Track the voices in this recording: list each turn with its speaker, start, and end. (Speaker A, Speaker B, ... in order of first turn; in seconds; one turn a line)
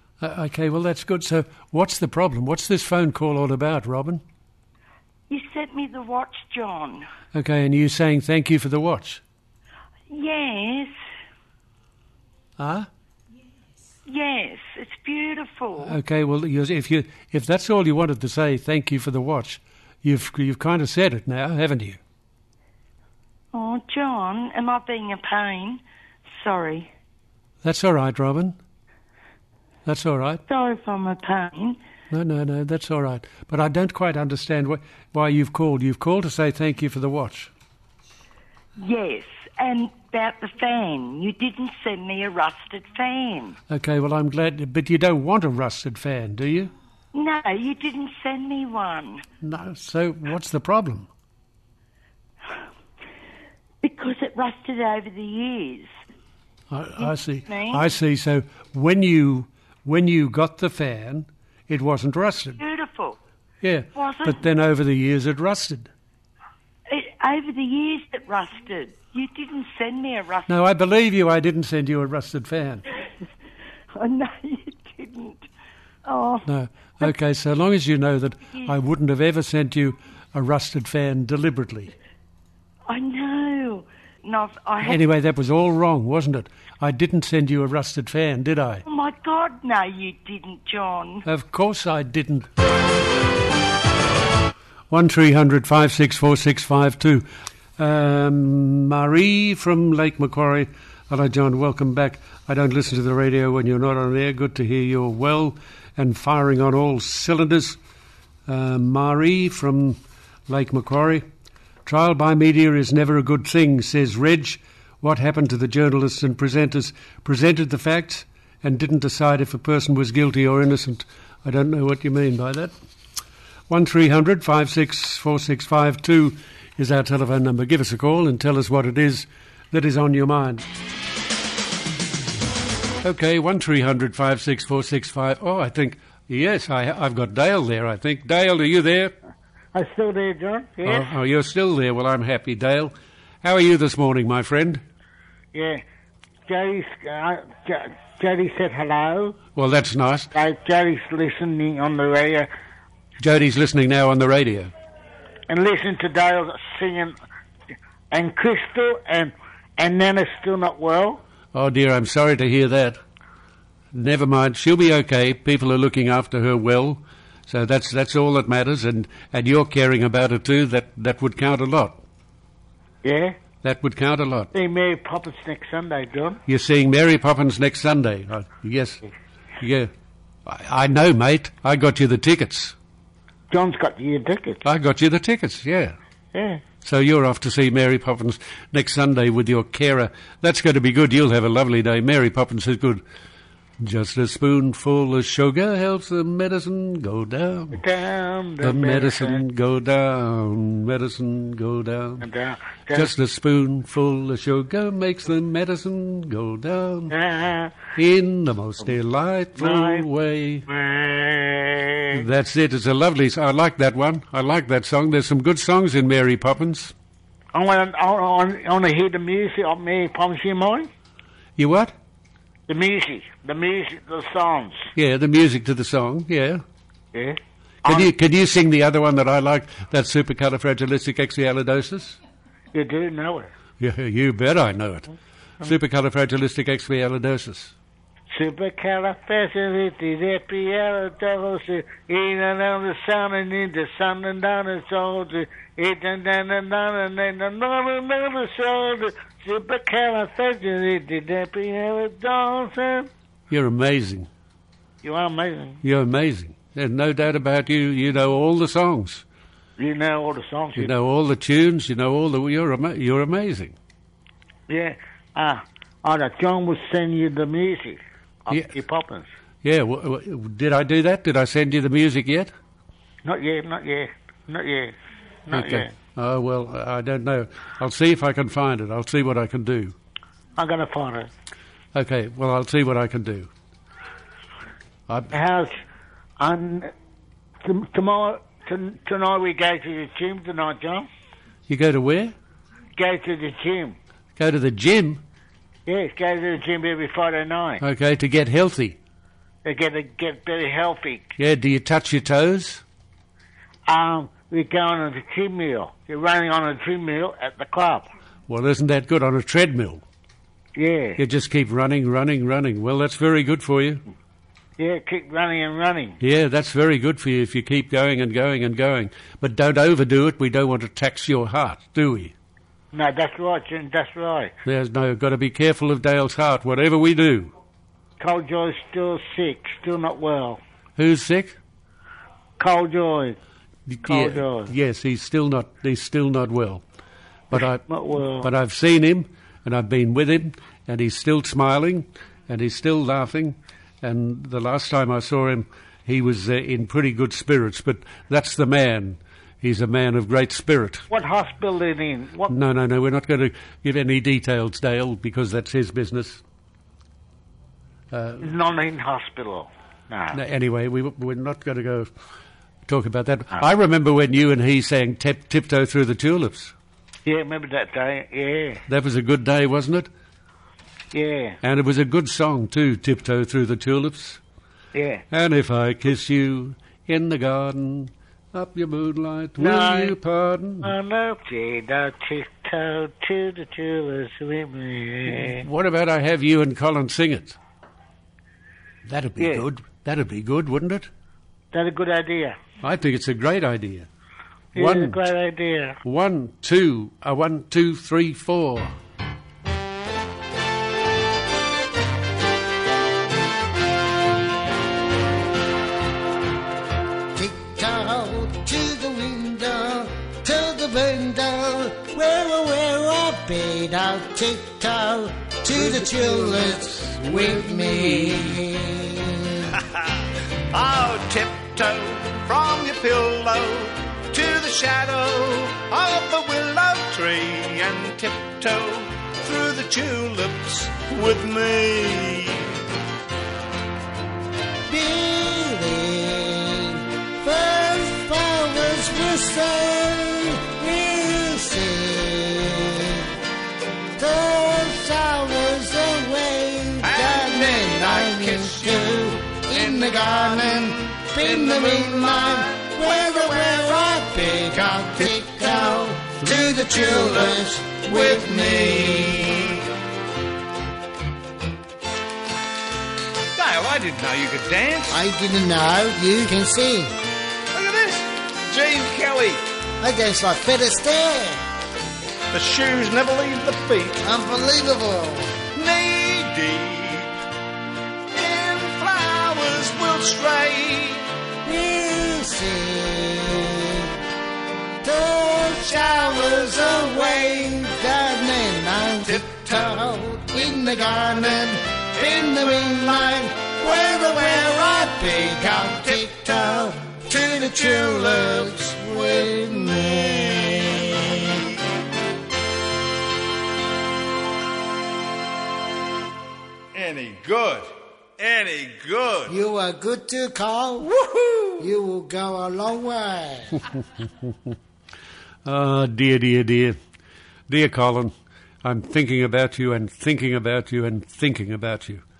Speaker A: 0.2-4.2
Speaker B: 5.3-7.1
Speaker A: 7.3-9.2
Speaker B: 10.1-10.9
Speaker A: 12.6-12.9
Speaker B: 14.1-16.0
Speaker A: 15.8-22.0
Speaker B: 23.5-25.8
Speaker B: 26.3-26.9
Speaker A: 27.6-28.6
Speaker A: 29.9-30.4
Speaker B: 30.5-31.8
Speaker A: 32.1-37.5
Speaker B: 38.8-43.6
Speaker A: 43.7-46.7
Speaker B: 47.1-49.2
Speaker A: 49.4-51.1
Speaker B: 53.8-55.9
Speaker A: 56.7-62.6
Speaker B: 57.0-57.8
Speaker B: 62.6-63.2
Speaker A: 63.6-65.9
Speaker B: 64.0-64.4
Speaker B: 66.9-70.5
Speaker A: 70.5-72.8
Speaker B: 74.0-75.5
Speaker B: 76.0-76.5
Speaker A: 76.5-81.9
Speaker B: 82.9-85.0
Speaker A: 84.8-88.8
Speaker B: 88.9-91.2
Speaker A: 91.2-92.5
Speaker A: 94.9-97.3
Speaker A: 97.8-107.8
Speaker A: 108.5-111.3
Speaker A: 111.8-122.7
Speaker A: 123.7-130.7
Speaker A: 133.0-139.2
Speaker C: 139.7-141.1
Speaker A: 140.8-144.8
Speaker C: 145.5-145.8
Speaker C: 146.5-149.4
Speaker A: 149.6-150.3
Speaker C: 150.3-152.5
Speaker A: 153.2-154.7
Speaker C: 155.5-157.2
Speaker C: 158.1-161.2
Speaker A: 161.5-163.0
Speaker A: 163.9-172.0
Speaker C: 173.0-173.4
Speaker A: 173.6-174.5
Speaker C: 174.5-176.4
Speaker A: 176.5-179.0
Speaker A: 179.6-179.9
Speaker A: 180.4-182.8
Speaker C: 183.5-184.6
Speaker A: 184.6-186.0
Speaker C: 186.3-186.6
Speaker A: 186.8-193.0
Speaker A: 193.8-197.8
Speaker C: 197.8-199.4
Speaker A: 198.6-202.3
Speaker C: 202.2-203.1
Speaker A: 202.9-207.2
Speaker C: 207.1-207.7
Speaker A: 207.9-210.7
Speaker C: 209.6-210.1
Speaker C: 210.7-212.2
Speaker A: 212.1-216.9
Speaker C: 217.5-220.9
Speaker A: 221.6-221.9
Speaker C: 222.7-224.9
Speaker A: 224.9-226.6
Speaker C: 227.1-228.1
Speaker A: 227.8-232.2
Speaker C: 232.7-233.5
Speaker A: 233.8-237.8
Speaker C: 238.3-253.1
Speaker A: 253.5-254.3
Speaker C: 255.0-255.8
Speaker A: 255.8-259.2
Speaker C: 259.8-260.9
Speaker A: 260.8-263.8
Speaker C: 264.7-269.3
Speaker A: 269.6-272.5
Speaker C: 273.2-274.9
Speaker A: 275.5-280.0
Speaker C: 275.5-275.9
Speaker C: 280.6-281.3
Speaker A: 281.9-283.5
Speaker A: 285.1-285.4
Speaker C: 285.3-285.8
Speaker C: 286.4-286.9
Speaker C: 287.6-291.1
Speaker A: 291.7-292.4
Speaker C: 293.0-294.0
Speaker A: 294.4-295.2
Speaker C: 295.9-297.8
Speaker A: 297.8-299.0
Speaker C: 299.6-301.4
Speaker A: 301.4-302.8
Speaker C: 303.9-308.1
Speaker A: 308.5-310.0
Speaker C: 310.8-311.2
Speaker A: 311.2-314.0
Speaker C: 314.8-316.2
Speaker A: 316.2-322.4
Speaker C: 322.9-324.5
Speaker A: 324.6-327.5
Speaker C: 328.2-330.6
Speaker A: 331.0-331.6
Speaker C: 332.6-333.4
Speaker A: 333.9-336.8
Speaker C: 334.1-334.7
Speaker A: 337.5-337.8
Speaker C: 337.5-338.5
Speaker A: 338.4-351.1
Speaker C: 351.1-352.5
Speaker A: 352.5-356.4
Speaker A: 358.1-358.5
Speaker C: 358.4-360.4
Speaker A: 360.3-362.1
Speaker A: 362.9-366.8
Speaker C: 367.3-368.8
Speaker A: 368.9-370.1
Speaker C: 371.1-371.6
Speaker A: 371.6-374.4
Speaker C: 374.9-375.2
Speaker A: 375.3-380.9
Speaker C: 379.6-380.1
Speaker C: 380.8-385.6
Speaker A: 385.3-387.6
Speaker A: 389.1-391.1
Speaker C: 389.4-389.6
Speaker C: 391.7-392.6
Speaker A: 392.8-394.1
Speaker C: 394.7-396.0
Speaker A: 394.8-395.2
Speaker A: 396.0-398.9
Speaker D: 407.4-419.7
Speaker A: 415.7-418.6
Speaker E: 420.7-432.7
Speaker D: 434.9-443.2
Speaker D: 444.2-459.7
Speaker E: 447.0-452.8
Speaker E: 456.5-457.6
Speaker E: 458.1-459.5
Speaker E: 463.6-465.2
Speaker D: 465.1-467.1
Speaker E: 467.7-469.6
Speaker D: 470.0-471.6
Speaker E: 472.5-474.2
Speaker D: 474.2-475.6
Speaker E: 475.7-477.4
Speaker E: 478.4-481.3
Speaker D: 481.6-484.1
Speaker D: 485.0-501.5
Speaker E: 506.9-509.5
Speaker D: 509.5-511.1
Speaker E: 511.1-511.7
Speaker D: 511.8-513.8
Speaker A: 515.6-517.0
Speaker A: 517.7-522.2